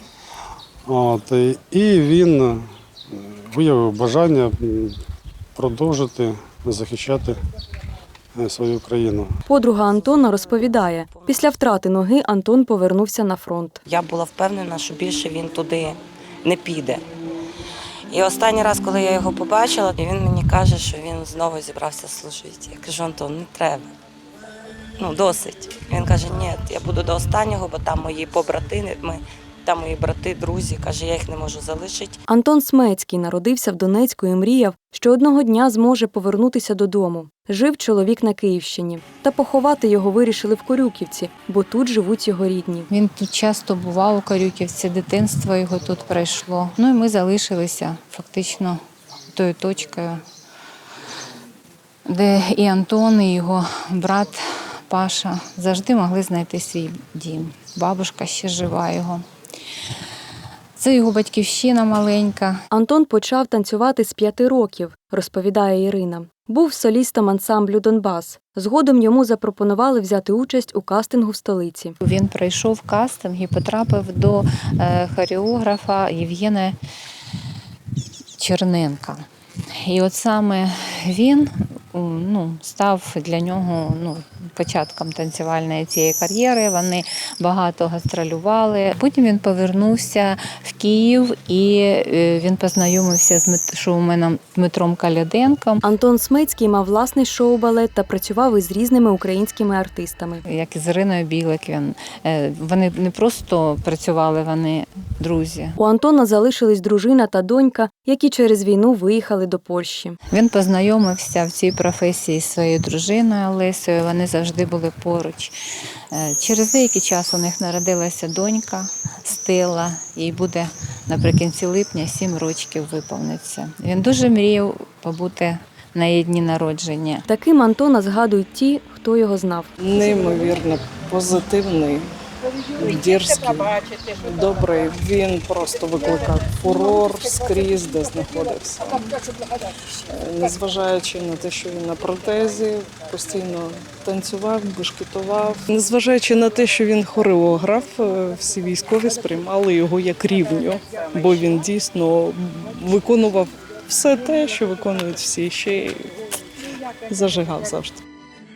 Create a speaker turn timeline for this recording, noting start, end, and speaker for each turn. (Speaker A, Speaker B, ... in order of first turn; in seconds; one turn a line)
Speaker A: 0.8-5.0
Speaker A: 5.5-7.4
Speaker A: 8.3-9.4
Speaker B: 9.5-13.8
Speaker C: 10.1-11.5
Speaker C: 13.8-17.0
Speaker C: 18.1-23.9
Speaker C: 25.0-32.2
Speaker B: 32.3-42.9
Speaker D: 42.9-50.2
Speaker D: 52.0-59.2
Speaker D: 60.8-62.6
Speaker B: 62.7-72.0
Speaker D: 72.0-76.8
Speaker D: 78.4-79.2
Speaker D: 79.8-95.8
Speaker B: 95.8-100.4
Speaker D: 100.4-105.8
Speaker B: 105.8-110.2
Speaker D: 110.3-115.5
Speaker D: 116.1-127.2
Speaker B: 127.3-129.7
Speaker E: 129.8-132.1
Speaker E: 132.7-139.2
Speaker E: 139.9-156.3
Speaker E: 157.1-158.0